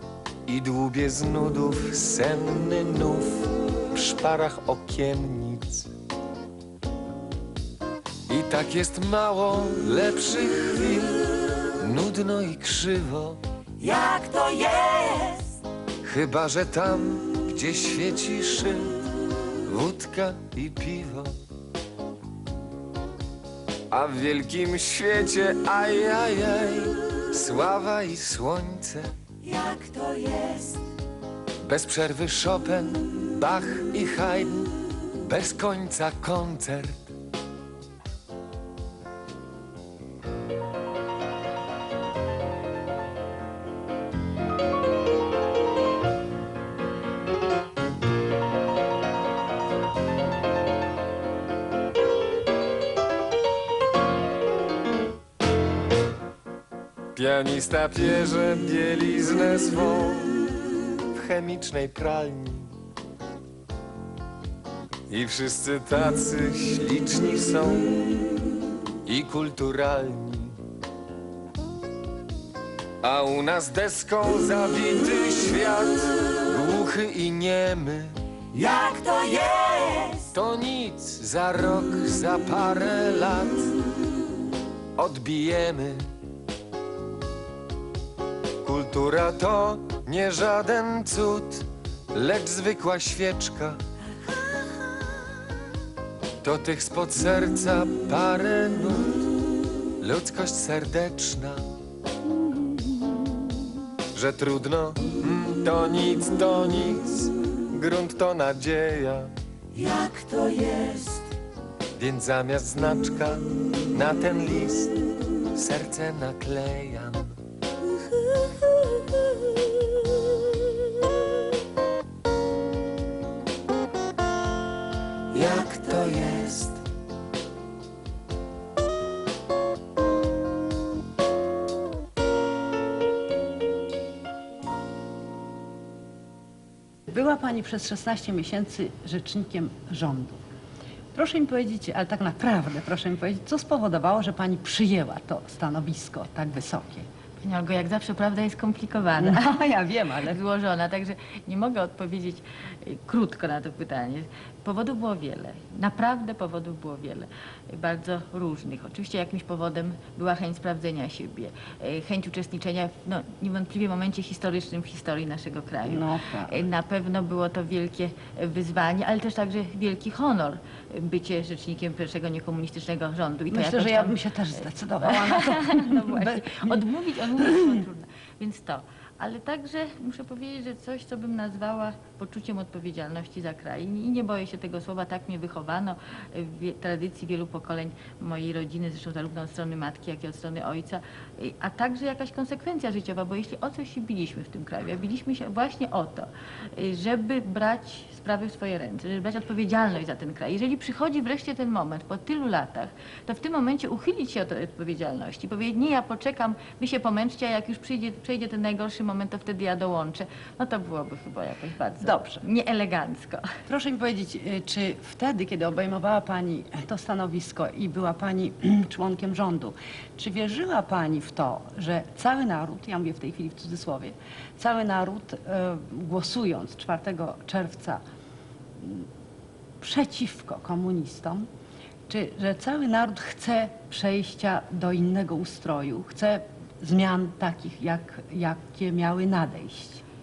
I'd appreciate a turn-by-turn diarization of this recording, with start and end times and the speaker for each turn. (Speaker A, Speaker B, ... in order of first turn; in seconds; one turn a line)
Speaker A: 0.5-5.9
Speaker A: 8.3-11.2
Speaker A: 11.8-13.4
Speaker B: 13.8-15.3
Speaker A: 16.0-19.1
Speaker A: 19.7-21.3
Speaker A: 23.9-29.1
Speaker B: 29.9-30.5
Speaker A: 31.6-34.7
Speaker A: 35.2-37.0
Speaker A: 57.1-60.4
Speaker A: 61.1-62.7
Speaker A: 65.1-68.1
Speaker A: 69.0-70.5
Speaker A: 73.0-78.1
Speaker A: 80.3-83.7
Speaker A: 85.0-86.0
Speaker A: 88.6-93.8
Speaker A: 96.4-99.3
Speaker A: 100.0-101.6
Speaker A: 104.1-109.3
Speaker A: 112.0-114.9
Speaker A: 115.5-117.2
Speaker A: 125.3-126.8
Speaker C: 137.1-140.4
Speaker C: 141.1-147.1
Speaker D: 147.4-149.5
Speaker C: 149.2-150.4
Speaker D: 150.2-174.2
Speaker C: 165.9-166.6
Speaker C: 173.5-176.8
Speaker D: 175.0-213.4
Speaker C: 177.4-177.8
Speaker C: 212.0-212.4
Speaker C: 213.7-228.0
Speaker C: 228.8-229.1
Speaker C: 229.8-231.5
Speaker C: 232.1-240.0